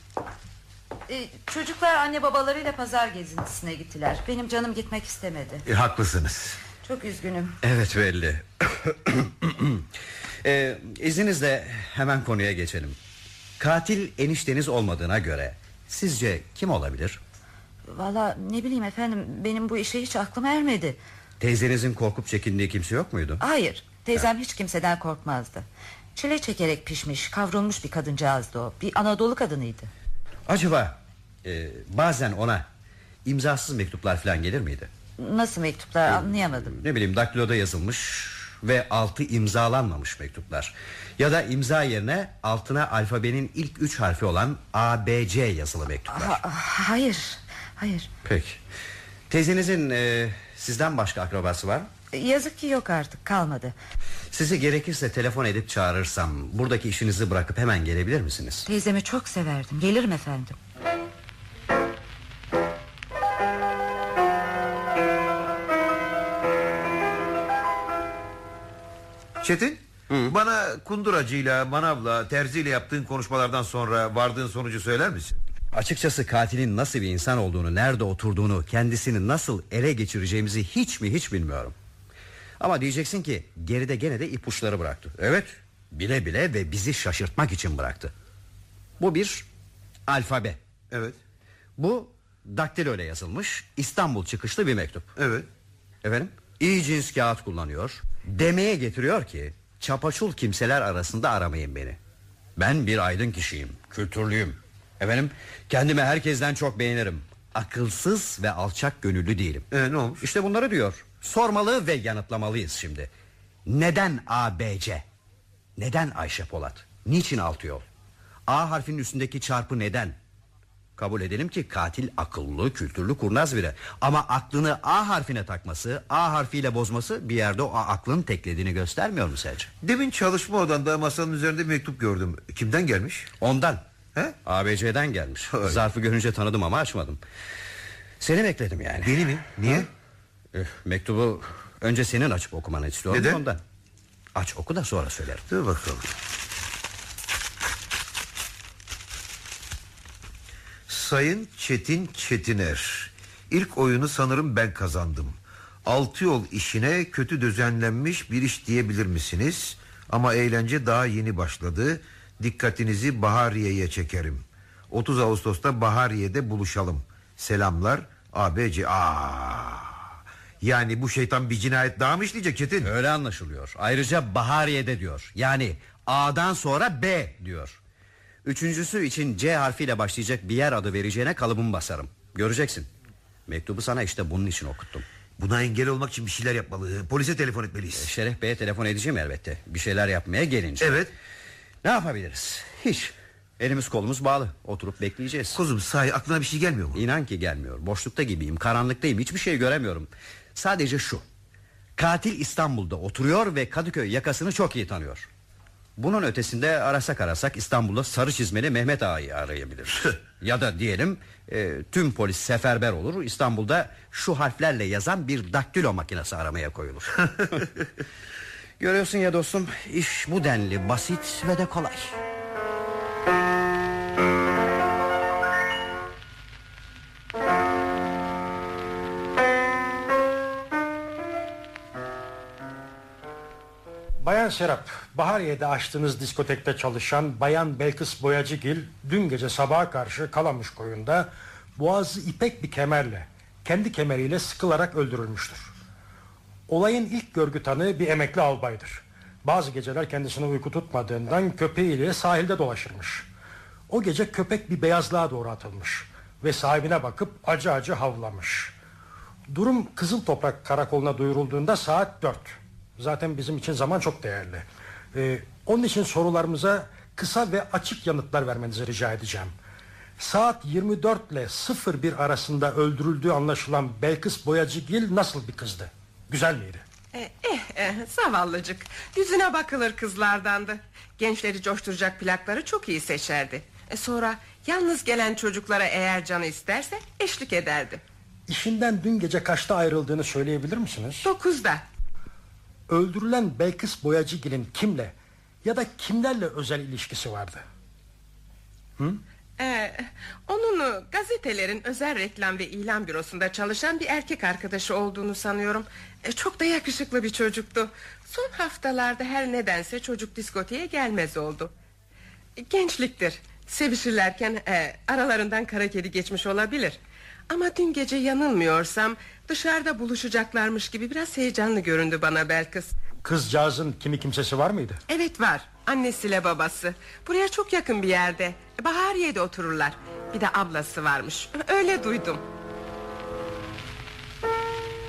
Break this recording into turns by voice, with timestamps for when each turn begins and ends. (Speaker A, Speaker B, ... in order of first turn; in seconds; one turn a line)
Speaker A: 1.1-5.6
Speaker B: 5.6-6.6
Speaker A: 6.8-7.5
Speaker C: 7.6-9.8
Speaker C: 10.4-13.0
Speaker C: 13.6-17.2
Speaker A: 17.8-21.0
Speaker C: 21.4-23.4
Speaker A: 23.4-29.9
Speaker C: 30.5-32.6
Speaker C: 33.2-34.9
Speaker A: 35.2-36.8
Speaker C: 36.1-46.4
Speaker A: 46.1-48.1
Speaker C: 48.2-48.6
Speaker C: 49.3-51.9
Speaker A: 52.1-53.7
Speaker C: 54.3-58.7
Speaker A: 58.6-60.5
Speaker B: 69.4-75.4
Speaker C: 70.1-70.3
Speaker C: 75.7-81.7
Speaker C: 82.6-88.1
Speaker C: 89.0-89.5
Speaker C: 90.1-90.6
Speaker B: 90.9-91.2
Speaker C: 91.8-95.1
Speaker B: 95.2-95.5
Speaker C: 96.0-102.0
Speaker C: 102.5-109.7
Speaker B: 109.7-110.2
Speaker C: 110.2-113.1
Speaker C: 113.7-115.0
Speaker C: 115.8-117.8
Speaker C: 118.5-120.2
Speaker C: 121.0-129.7
Speaker B: 129.8-133.3
Speaker C: 133.4-133.8
Speaker C: 134.4-137.2
Speaker B: 135.5-135.8
Speaker C: 138.2-139.8
Speaker B: 139.0-139.9
Speaker C: 140.5-143.6
Speaker B: 143.1-143.4
Speaker C: 144.3-145.4
Speaker B: 145.5-146.1
Speaker B: 150.9-170.1
Speaker B: 170.6-172.9
Speaker C: 172.8-177.8
Speaker C: 178.4-182.9
Speaker C: 183.5-185.1
Speaker B: 185.4-188.1
Speaker C: 187.9-191.0
Speaker B: 190.8-191.1
Speaker C: 191.8-195.6
Speaker B: 195.5-197.0
Speaker C: 196.9-201.2
Speaker C: 202.0-205.3
Speaker C: 206.0-217.8
Speaker C: 218.8-222.2
Speaker D: 234.2-245.7
Speaker D: 246.7-253.3
Speaker D: 253.9-258.7
Speaker D: 259.5-269.5
Speaker D: 270.2-276.8
Speaker E: 277.1-288.0
Speaker D: 288.5-291.3
Speaker E: 291.2-291.8
Speaker D: 292.9-297.6
Speaker E: 299.6-311.7
Speaker E: 312.6-317.0
Speaker E: 317.5-322.9
Speaker D: 323.2-325.0
Speaker E: 325.1-332.4